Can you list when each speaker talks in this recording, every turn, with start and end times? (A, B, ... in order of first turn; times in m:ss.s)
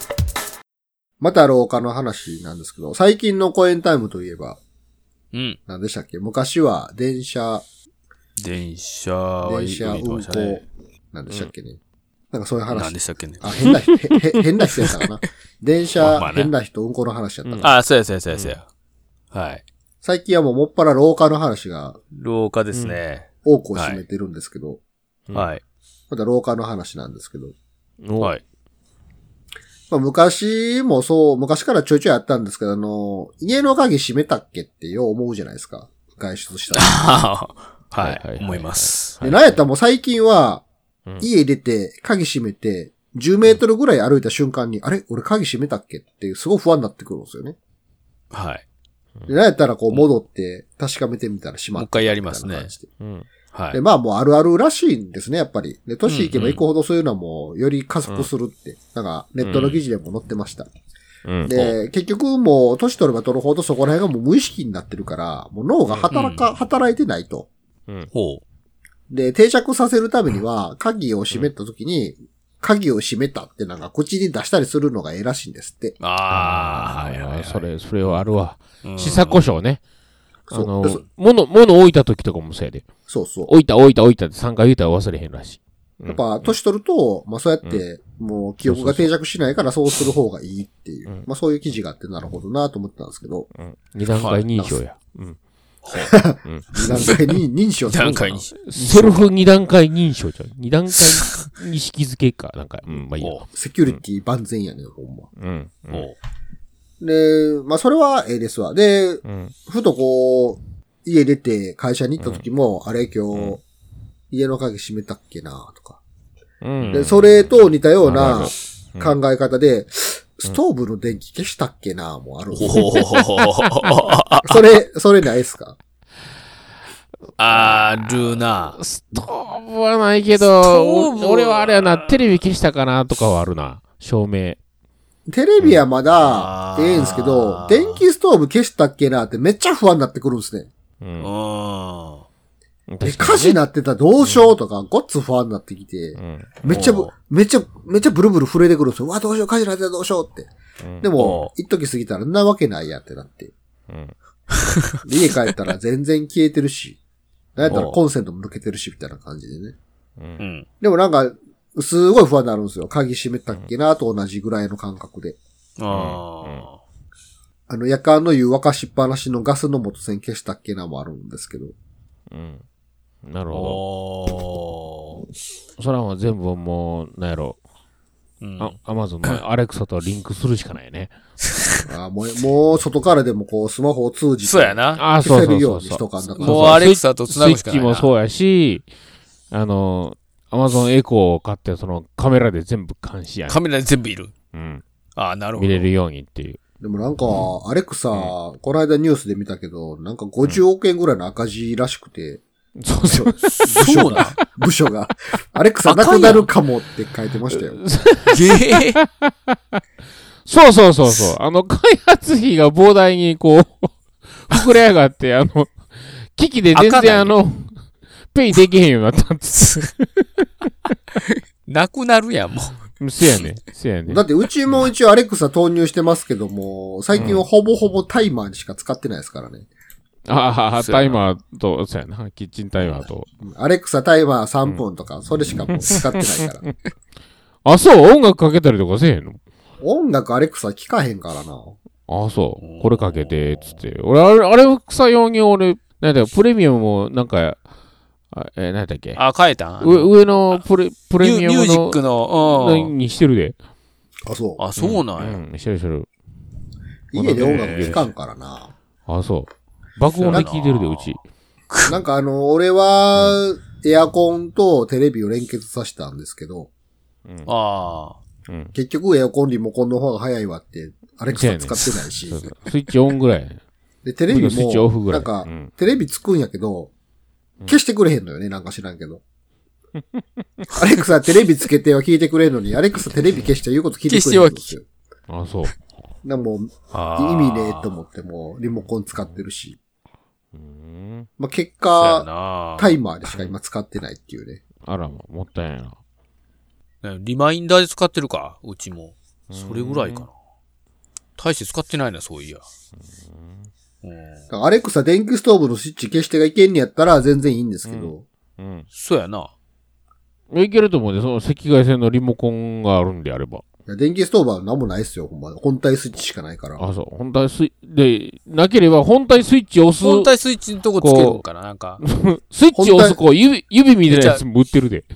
0:01.2-0:04.6 A
0:05.3-0:05.6 B
0:05.7-0:07.6 A
0:08.4-0:10.6 B
0:09.4-0:11.8 A
0:12.3-0:17.7 A
0:12.7-0:13.6 B
0:13.6-0:14.2 C
0:16.0-0:16.5 B
0:17.4-0:17.7 C
0:17.6-0:18.7 B
0:18.3-0:18.6 C
0:19.3-0:19.6 B
0:20.0-0:22.0 A
0:22.1-0:24.0 B
0:22.7-0:23.0 C
0:23.4-0:24.8 A
0:25.3-0:25.6 B
0:26.1-0:27.5 A
0:28.0-0:28.3 C
0:29.9-0:37.1 A
0:36.7-0:39.2 B
0:38.0-0:39.6 C
0:39.2-0:40.6 A
0:41.2-0:47.6 A
0:48.3-0:48.6 B
0:49.3-0:52.9 A
0:51.8-0:52.7 B
0:53.0-0:53.3 C
0:53.5-0:53.8 B
0:53.7-1:00.7 A
0:56.0-0:56.6 B
0:59.4-0:59.8 B
1:01.2-1:01.8 C
1:01.4-1:07.5 A
1:05.8-1:06.2 C
1:06.1-1:06.5 B
1:08.1-1:08.4 B
1:09.1-1:16.0 A
1:16.0-1:18.2 B
1:16.3-1:19.8 C
1:18.8-1:19.4 B
1:20.5-1:22.9 C
1:20.5-1:21.0 A
1:23.1-1:23.5 A
1:23.4-1:26.5 C
1:26.1-1:33.5 A
1:28.6-1:29.1 C
1:33.5-1:35.4 C
1:34.2-1:34.4 B
1:34.5-1:34.8 A
1:35.8-1:36.1 B
1:36.0-1:38.4 A
1:36.4-1:37.1 C
1:36.7-1:37.3 B
1:37.9-1:39.3 B
1:38.6-1:44.0 C
1:43.5-1:45.3 A
1:45.4-1:46.1 C
1:45.9-1:46.2 B
1:47.0-1:53.6 A
1:49.2-1:49.5 C
1:52.2-1:52.4 C
1:53.3-1:53.6 C
1:54.3-1:56.0 A
1:56.6-1:57.4 C
1:56.9-2:03.0 A
1:58.0-1:59.2 C
2:02.6-2:04.6 B
2:04.4-2:05.8 A
2:07.4-2:08.8 B
2:07.4-2:14.6 C
2:10.3-2:12.2 B
2:15.3-2:20.7 A
2:16.2-2:18.0 B
2:21.0-2:21.3 C
2:21.2-2:22.2 B
2:22.9-2:23.6 C
2:23.0-2:30.5 A
2:24.2-2:24.5 C
2:26.2-2:26.5 C
2:26.7-2:27.1 B
2:30.8-2:31.1 C
2:31.0-2:33.5 A
2:31.2-2:31.5 B
2:35.0-2:37.0 A
2:37.6-2:39.8 A
2:37.7-2:38.0 B
2:40.4-2:40.6 B
2:40.8-2:45.4 A
2:45.8-2:46.8 B
2:45.9-2:46.6 C
2:47.7-2:51.7 A
2:52.3-2:52.6 C
2:53.3-2:53.8 C
2:53.5-2:55.2 B
2:55.8-2:57.6 C
2:58.4-2:59.4 B
2:58.6-3:01.1 C
3:01.8-3:06.9 A
3:04.4-3:05.0 B
3:05.0-3:08.9 C
3:06.4-3:08.1 B
3:09.5-3:13.6 C
3:13.5-3:14.3 B
3:14.5-3:14.8 C
3:15.2-3:15.9 B
3:15.6-3:16.6 C
3:16.8-3:22.4 A
3:22.8-3:24.3 C
3:23.0-3:27.8 A
3:23.4-3:24.4 B
3:25.8-3:26.5 B
3:27.5-3:29.5 C
3:28.3-3:29.0 B
3:30.4-3:37.7 C
3:36.7-3:37.3 B
3:38.3-3:40.4 C
3:41.2-3:43.4 B
3:43.0-3:44.9 C
3:44.1-3:49.7 A
3:47.1-3:47.4 C
3:50.3-3:53.3 C
3:50.8-3:51.2 B
3:53.4-3:56.7 A
3:55.7-3:56.5 C
3:57.6-3:59.4 C
3:59.8-4:01.8 A
4:02.1-4:07.6 C
4:02.6-4:03.8 B
4:08.3-4:09.2 C
4:09.1-4:10.6 B
4:09.8-4:13.6 C
4:11.2-4:12.9 B
4:14.2-4:14.6 A
4:14.6-4:15.4 B
4:14.8-4:16.1 C
4:17.1-4:18.7 A
4:17.1-4:18.1 C
4:17.4-4:18.0 B
4:19.1-4:21.2 C
4:20.1-4:21.2 B
4:21.7-4:22.0 B
4:21.9-4:26.7 A
4:27.4-4:28.2 B
4:28.5-4:28.7 C
4:28.7-4:32.5 A
4:31.3-4:33.6 C
4:34.0-4:36.9 A
4:34.3-4:35.7 C
4:37.7-4:39.2 A
4:40.8-4:44.8 A
4:44.1-4:44.7 B
4:45.3-4:45.8 C
4:46.2-4:49.8 A
4:46.9-4:47.9 B
4:49.0-4:49.4 C
4:50.5-4:51.3 C
4:51.4-4:54.6 A
4:52.0-4:53.0 B
4:53.3-4:53.5 C
4:54.8-4:56.0 C
4:57.0-5:00.3 B
4:59.5-5:00.3 C
5:01.4-5:02.6 B
5:03.2-5:03.6 C
5:04.0-5:04.4 B
5:04.5-5:08.2 A
5:07.8-5:08.9 C
5:08.9-5:09.5 B
5:10.5-5:13.6 C
5:13.9-5:16.9 A
5:16.8-5:20.3 C
5:20.0-5:22.0 B
5:21.0-5:21.4 C
5:22.0-5:25.1 C
5:22.7-5:23.2 A
5:24.1-5:24.4 B